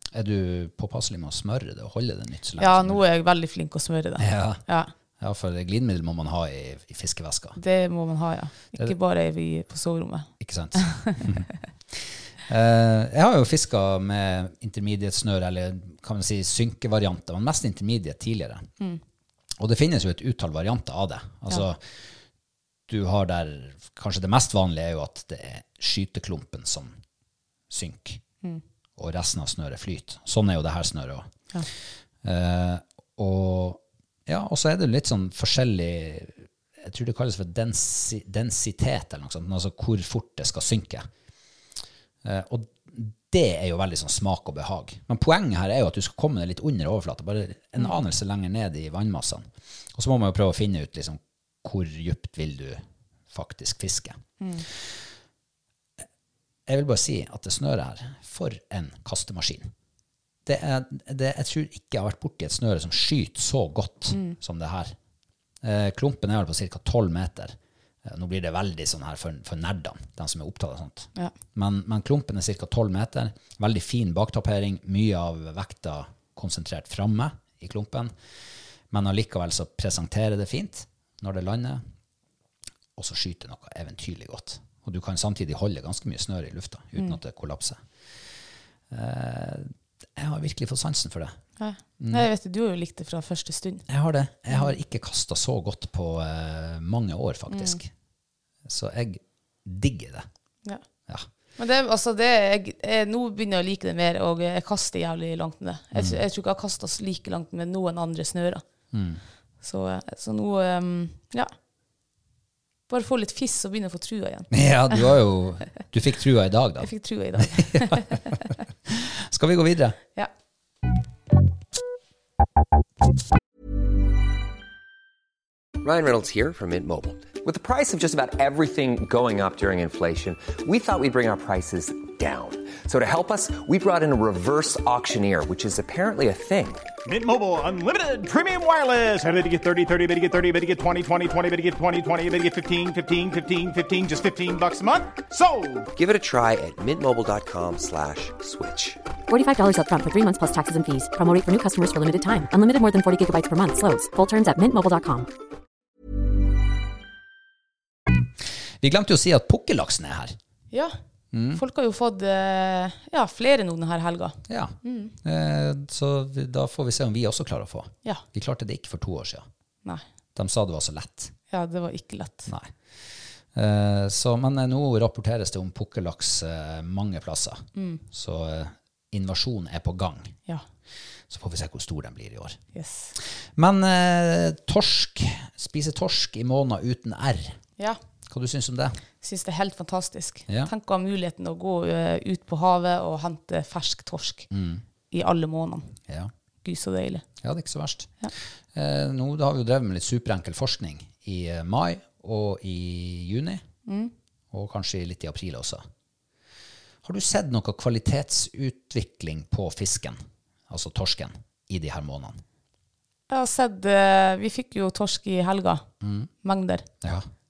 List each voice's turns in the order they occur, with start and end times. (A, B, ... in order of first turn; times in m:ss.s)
0:00.1-0:03.0 A
0:02.6-0:04.9 B
0:04.2-0:04.6 A
0:05.2-0:07.6 A
0:07.6-0:11.3 B
0:10.4-0:18.7 A
0:19.6-0:21.8 A
0:22.9-0:27.0 A
0:27.7-0:28.2 A
0:29.0-0:31.3 A
0:32.2-0:41.1 A
0:42.2-0:54.2 A
0:54.4-0:54.7 B
0:56.7-0:59.7 A
1:00.5-1:05.0 A
1:04.1-1:04.4 B
1:05.6-1:18.1 A
1:18.9-1:21.8 A
1:23.0-1:27.8 A
1:28.9-1:31.4 A
1:31.6-1:33.8 B
1:32.0-1:32.3 A
1:33.9-1:37.9 A
1:37.5-1:37.8 B
1:38.6-1:40.3 A
1:41.6-1:48.6 B
1:46.0-1:46.2 A
1:48.9-1:49.2 A
1:49.6-1:51.5 B
1:52.9-1:54.5 B
1:54.5-1:58.2 A
1:56.8-1:58.2 B
1:58.9-2:00.0 A
2:05.8-2:16.9 C
2:17.0-2:25.9 D
2:26.0-2:29.0 C
2:29.3-2:35.3 E
2:38.8-2:40.4 A
2:41.3-2:41.6 A
2:41.5-2:45.1 B
2:44.5-2:49.5 A
2:50.4-2:51.3 A
2:51.5-2:52.5 B
2:52.5-2:52.7 A
2:53.5-3:00.4 A
2:57.8-2:58.0 B
3:01.3-3:02.6 A
3:02.7-3:03.1 B
3:03.6-3:07.6 A
3:08.3-3:09.0 A
3:09.2-3:14.5 B
3:14.5-3:14.8 A
3:15.1-3:15.9 B
3:16.6-3:17.2 B
3:17.4-3:18.1 A
3:18.7-3:23.6 A
3:23.9-3:24.1 B
3:24.5-3:25.8 A
3:27.0-3:32.4 A
3:33.3-3:35.8 B
3:36.0-3:36.3 A
3:36.4-3:36.9 B
3:37.0-3:37.3 A